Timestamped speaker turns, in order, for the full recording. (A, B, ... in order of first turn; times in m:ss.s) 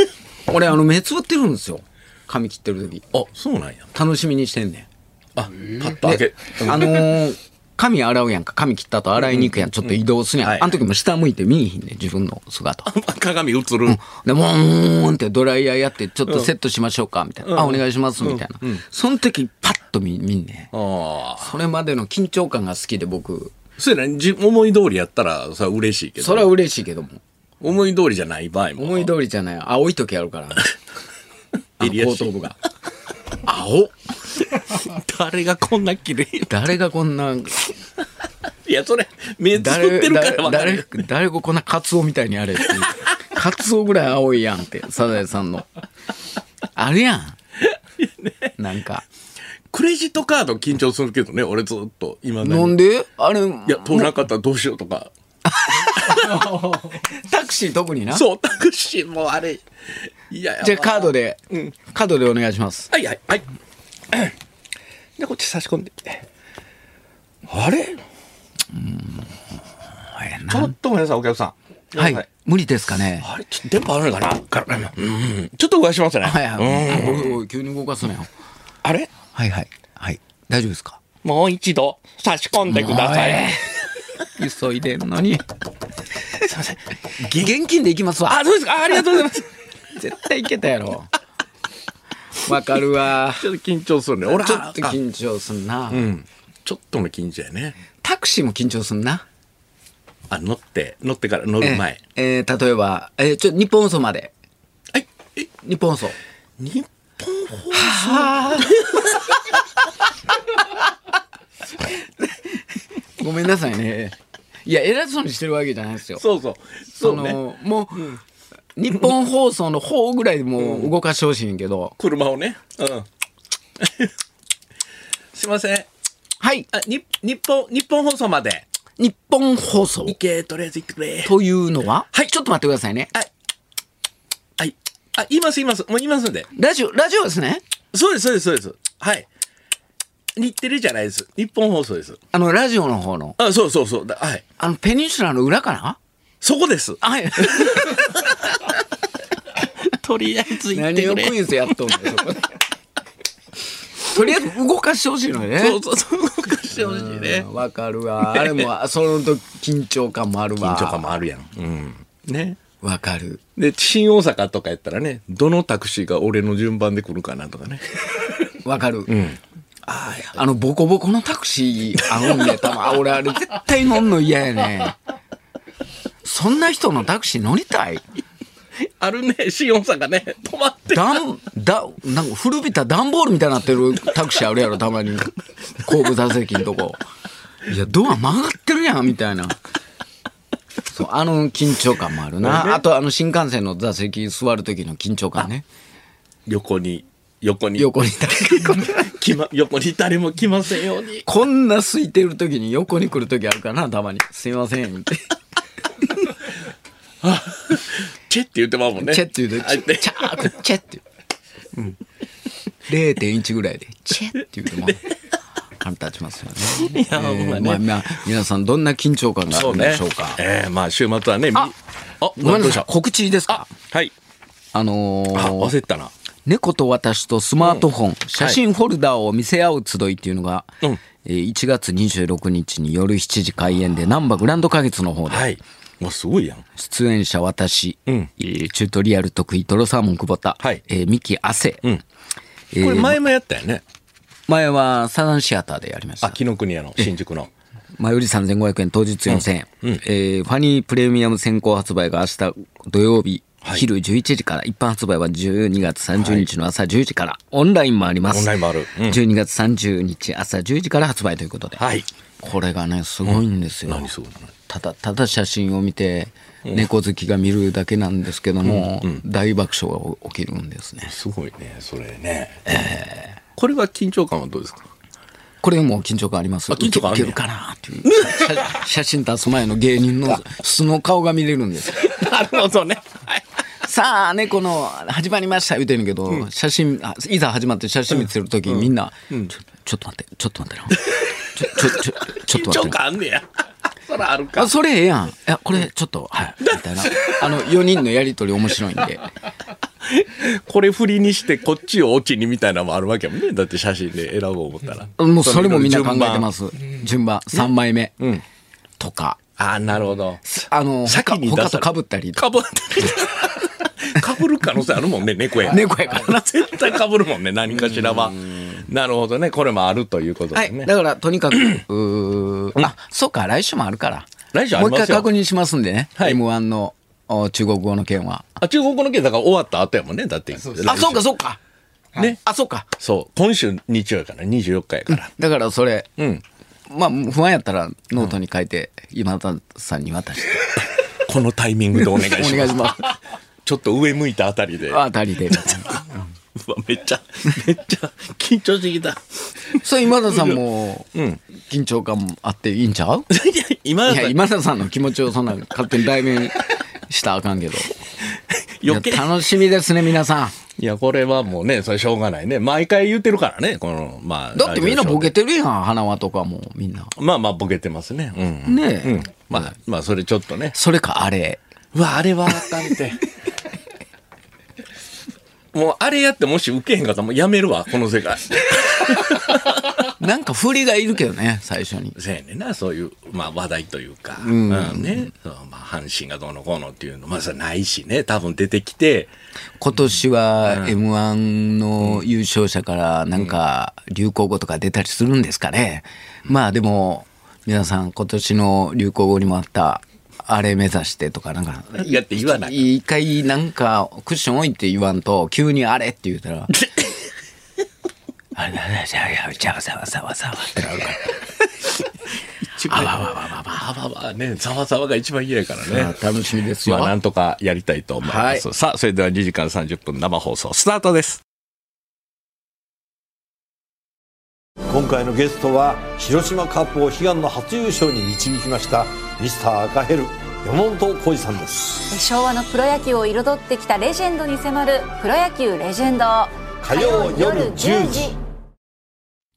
0:00.5-0:03.1 A
0:03.1-0:03.9 B
0:03.9-0:04.9 A
0:05.3-0:07.2 B
0:05.9-0:12.9 A
0:09.3-0:10.8 B
0:12.8-0:14.0 B
0:13.8-0:20.7 A
0:17.4-0:18.8 B
0:20.7-0:21.6 B
0:21.4-0:23.5 A
0:23.8-0:26.5 B
0:26.2-0:27.2 A
0:27.6-0:29.1 B
0:28.8-0:30.7 A
0:31.8-0:32.6 A
0:31.8-0:32.4 B
0:33.4-0:33.9 A
0:34.4-0:36.5 B
0:36.5-0:37.6 A
0:38.6-0:41.0 B
0:39.5-0:45.7 A
0:46.8-0:47.4 A
0:47.6-0:48.5 B
0:48.6-0:49.0 A
0:49.7-0:52.8 B
0:52.4-0:54.1 A
0:53.6-0:55.1 B
0:55.4-0:58.2 A
0:55.9-0:56.7 B
0:58.1-0:59.6 B
1:00.3-1:01.7 B
1:00.6-1:02.9 A
1:02.9-1:03.4 B
1:04.1-1:04.4 B
1:05.2-1:06.3 B
1:07.4-1:08.0 B
1:08.7-1:09.3 A
1:10.0-1:10.7 A
1:10.5-1:12.2 B
1:11.9-1:13.3 A
1:13.2-1:17.3 B
1:16.2-1:18.3 A
1:18.8-1:19.1 B
1:19.3-1:21.0 A
1:21.2-1:23.6 B
1:22.7-1:23.7 A
1:24.3-1:25.4 A
1:26.4-1:27.5 B
1:27.2-1:29.3 A
1:28.2-1:29.5 B
1:29.9-1:31.1 A
1:32.4-1:33.5 A
1:33.3-1:35.0 B
1:34.2-1:36.1 A
1:35.9-1:37.8 B
1:38.0-1:39.2 A
1:40.3-1:42.0 B
1:41.6-1:44.3 A
1:44.9-1:45.5 B
1:45.6-1:46.2 A
1:46.6-1:49.6 B
1:47.7-1:48.8 A
1:51.8-1:52.6 A
1:53.2-1:56.2 A
1:56.2-1:57.4 B
1:56.9-1:58.2 A
1:58.8-2:02.0 A
2:00.6-2:00.9 B
2:02.0-2:03.1 B
2:03.8-2:04.1 B
2:05.3-2:05.9 B
2:06.4-2:06.7 A
2:06.7-2:08.6 B
2:09.0-2:10.2 A
2:10.0-2:11.4 B
2:11.2-2:13.1 A
2:14.6-2:16.5 B
2:16.5-2:17.6 A
2:17.9-2:19.3 B
2:20.4-2:22.2 B
2:22.3-2:23.4 A
2:23.4-2:24.4 B
2:24.6-2:26.0 A
2:26.4-2:28.4 B
2:27.0-2:28.1 A
2:29.6-2:31.4 B
2:30.7-2:32.6 A
2:34.0-2:35.8 A
2:35.6-2:37.5 B
2:36.8-2:41.2 A
2:38.2-2:38.7 B
2:40.6-2:42.6 B
2:42.8-2:43.4 A
2:43.6-2:48.0 B
2:48.6-2:49.2 A
2:49.1-2:50.3 B
2:50.3-2:55.0 A
2:52.2-2:52.5 B
2:56.2-2:58.0 A
2:58.8-3:01.2 B
3:00.9-3:07.0 A
3:07.6-3:09.6 A
3:10.9-3:15.6 A
3:12.4-3:12.8 B
3:16.5-3:17.9 B
3:17.8-3:19.1 A
3:18.8-3:21.2 B
3:21.2-3:25.2 A
3:27.2-3:30.5 B
3:29.0-3:31.0 A
3:32.9-3:35.1 A
3:35.8-3:40.4 A
3:36.7-3:38.0 B
3:39.5-3:42.9 B
3:42.4-3:43.7 A
3:43.5-3:44.1 B
3:44.7-3:45.7 A
3:45.3-3:46.1 B
3:46.4-3:55.5 A
3:55.3-3:56.6 B
3:56.8-4:01.8 A
4:02.7-4:03.2 A
4:02.8-4:03.8 B
4:04.5-4:06.4 A
4:06.2-4:07.5 B
4:08.0-4:21.8 A
4:09.3-4:10.0 B
4:16.2-4:16.5 B
4:18.2-4:19.2 B
4:21.8-4:22.1 B
4:22.4-4:24.1 A
4:23.2-4:24.5 B
4:24.7-4:31.1 A
4:28.6-4:29.2 B
4:31.0-4:32.6 B
4:32.6-4:33.4 A
4:33.6-4:34.9 B
4:35.6-4:42.1 A
4:36.7-4:37.4 B
4:38.0-4:38.7 B
4:41.9-4:43.4 B
4:43.8-4:53.0 A
4:48.7-4:49.5 B
4:50.9-4:54.7 B
4:54.6-4:59.3 A
4:56.6-4:57.7 B
5:00.0-5:06.5 B
5:05.2-5:08.1 A
5:09.0-5:09.4 A
5:09.6-5:20.9 B
5:10.5-5:12.4 A
5:15.6-5:16.8 A
5:17.7-5:18.8 A
5:20.5-5:28.5 A
5:24.5-5:25.3 B
5:28.6-5:31.3 B
5:30.8-5:31.6 A
5:32.2-5:32.9 A
5:33.0-5:35.3 B
5:35.1-5:36.1 A
5:36.2-5:36.4 B
5:36.9-5:40.8 A
5:41.2-5:43.1 B
5:42.1-5:43.2 A
5:43.6-5:50.6 B
5:44.9-5:46.2 A
5:49.8-5:51.1 A
5:51.1-5:51.4 B
5:51.7-5:53.3 A
5:53.3-5:54.4 B
5:54.0-5:57.9 A
5:58.3-5:59.3 B
5:58.8-6:00.6 A
6:00.8-6:05.3 B
6:04.5-6:07.1 A
6:07.2-6:10.8 B
6:08.6-6:09.7 A
6:10.7-6:11.6 A
6:11.9-6:13.2 B
6:15.7-6:19.9 B
6:20.2-6:22.1 A
6:22.1-6:29.3 B
6:24.4-6:25.3 A
6:29.8-6:46.8 A
6:30.6-6:31.0 B
6:42.0-6:42.8 B
6:46.7-6:47.3 B
6:48.5-6:51.4 A
6:52.6-6:56.2 B
6:52.8-6:53.8 A
6:55.8-6:57.1 A
6:56.8-7:01.4 B
6:58.2-6:58.6 A
7:04.9-7:12.0 C
7:12.1-7:18.4 D
7:16.8-7:18.3 C